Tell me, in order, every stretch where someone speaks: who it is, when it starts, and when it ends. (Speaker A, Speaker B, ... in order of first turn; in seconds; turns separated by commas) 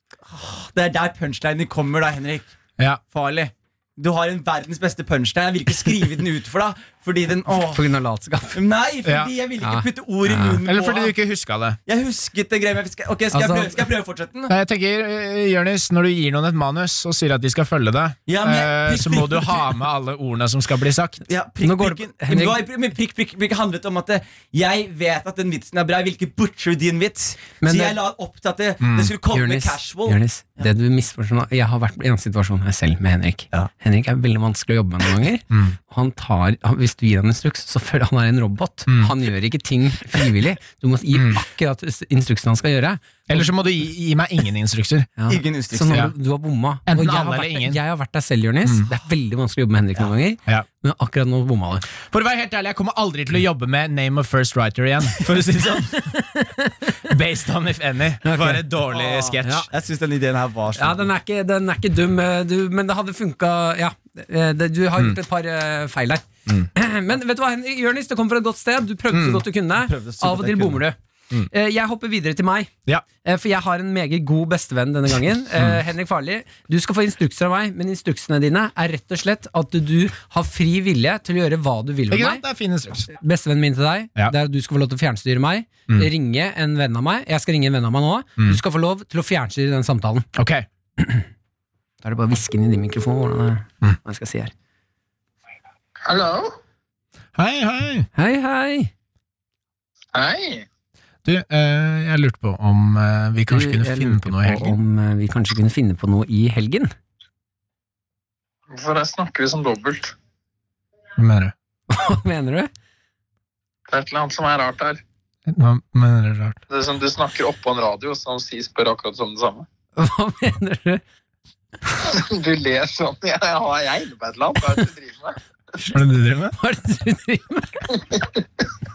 Speaker A: 0.3-2.5, Speaker A: 3.1-7.8, Speaker B: 7.7-8.6, Speaker A: 8.5-11.2, Speaker C: 9.1-9.3, Speaker B: 9.6-10.6, Speaker C: 10.6-11.8, Speaker A: 11.9-14.5, Speaker B: 13.3-13.8, Speaker C: 14.5-21.2, Speaker A: 18.3-19.7, Speaker A: 21.3-30.7, Speaker B: 21.6-22.6, Speaker B: 27.6-28.0, Speaker C: 28.8-29.1, Speaker B: 29.3-43.5, Speaker C: 35.5-35.8, Speaker C: 38.9-39.1, Speaker C: 41.1-41.4, Speaker C: 43.3-45.1, Speaker B: 45.2-51.9, Speaker A: 45.3-46.1, Speaker C: 46.9-47.8, Speaker C: 48.6-48.9, Speaker C: 52.1-56.0, Speaker A: 55.4-55.9, Speaker B: 56.0-57.0, Speaker C: 57.0-59.7, Speaker B: 58.2-58.6, Speaker A: 58.9-61.1, Speaker B: 60.8-71.0, Speaker C: 69.1-69.4, Speaker A: 69.8-70.8, Speaker B: 71.5-72.7, Speaker B: 73.2-82.4, Speaker C: 82.1-83.1, Speaker B: 83.1-90.2, Speaker C: 90.3-90.7, Speaker B: 92.0-94.5, Speaker D: 96.0-96.5, Speaker C: 97.4-98.1, Speaker B: 98.2-98.9, Speaker D: 100.1-100.6, Speaker C: 101.2-104.8, Speaker B: 103.5-106.9, Speaker D: 108.7-110.1, Speaker C: 111.2-111.5, Speaker B: 111.9-112.7, Speaker D: 113.9-115.0, Speaker C: 115.5-116.6, Speaker D: 116.7-119.7, Speaker B: 120.0-121.0, Speaker D: 122.0-125.4, Speaker C: 125.9-126.5, Speaker B: 126.5-127.8, Speaker D: 128.0-128.3